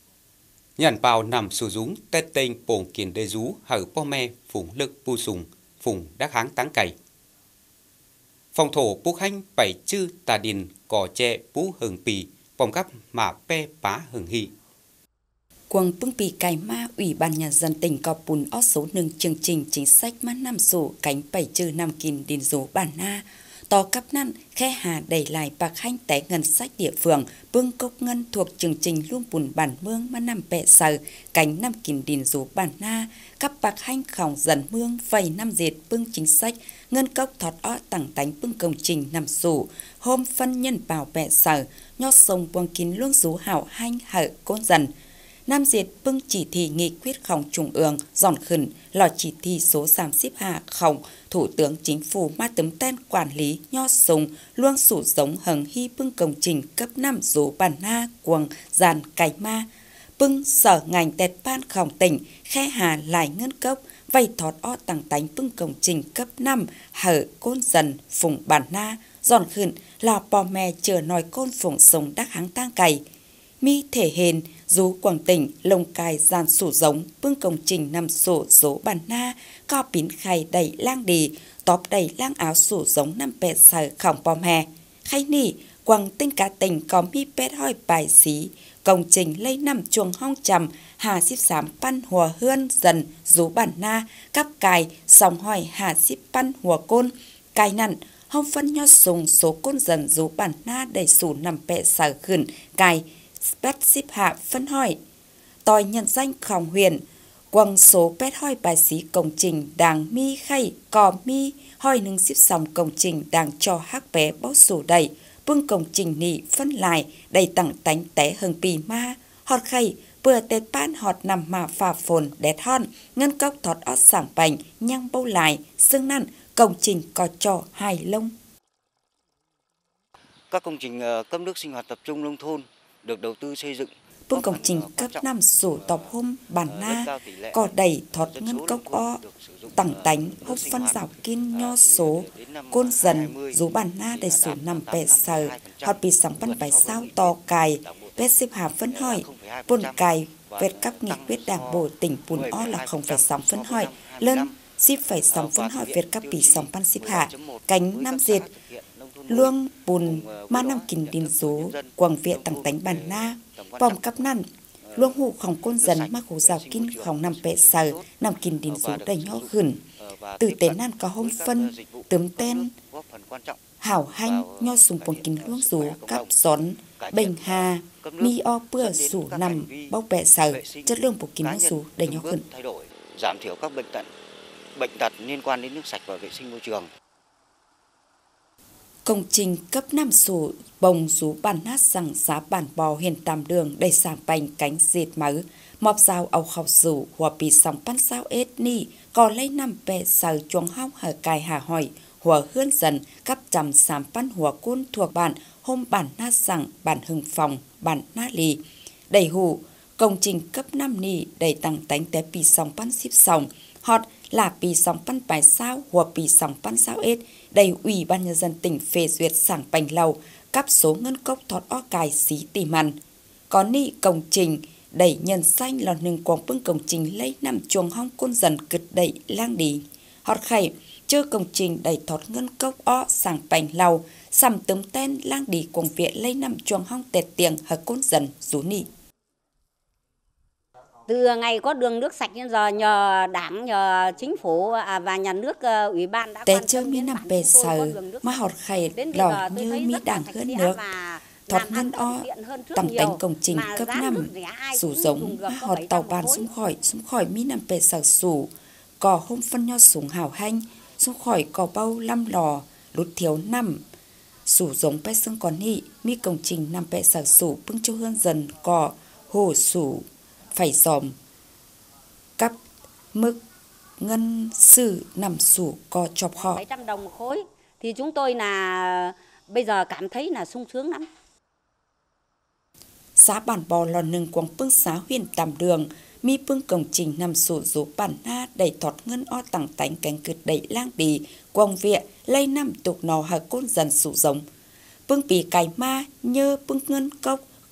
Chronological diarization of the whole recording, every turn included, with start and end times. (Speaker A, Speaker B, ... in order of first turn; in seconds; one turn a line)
Speaker A: 0.8-7.0
Speaker A: 8.5-14.5
Speaker B: 15.7-44.9
Speaker B: 45.5-73.0
Speaker B: 73.6-105.0
Speaker B: 105.6-128.3
Speaker C: 130.5-136.1
Speaker B: 134.3-139.2
Speaker C: 136.6-148.3
Speaker B: 139.7-158.5
Speaker C: 148.9-154.5
Speaker C: 155.2-164.2
Speaker B: 159.3-169.8
Speaker C: 164.8-165.2
Speaker C: 165.8-168.1
Speaker C: 168.7-173.6
Speaker B: 170.4-172.7
Speaker B: 173.8-182.4
Speaker C: 174.2-176.3
Speaker C: 177.0-184.1
Speaker C: 184.7-186.9
Speaker B: 189.0-222.9
Speaker B: 223.5-238.9
Speaker D: 241.1-256.5
Speaker B: 246.4-250.8
Speaker B: 251.5-263.8
Speaker B: 264.4-271.1
Speaker B: 273.1-273.4
Speaker B: 274.0-276.6
Speaker D: 276.4-281.1
Speaker B: 283.2-294.4
Speaker B: 295.1-297.4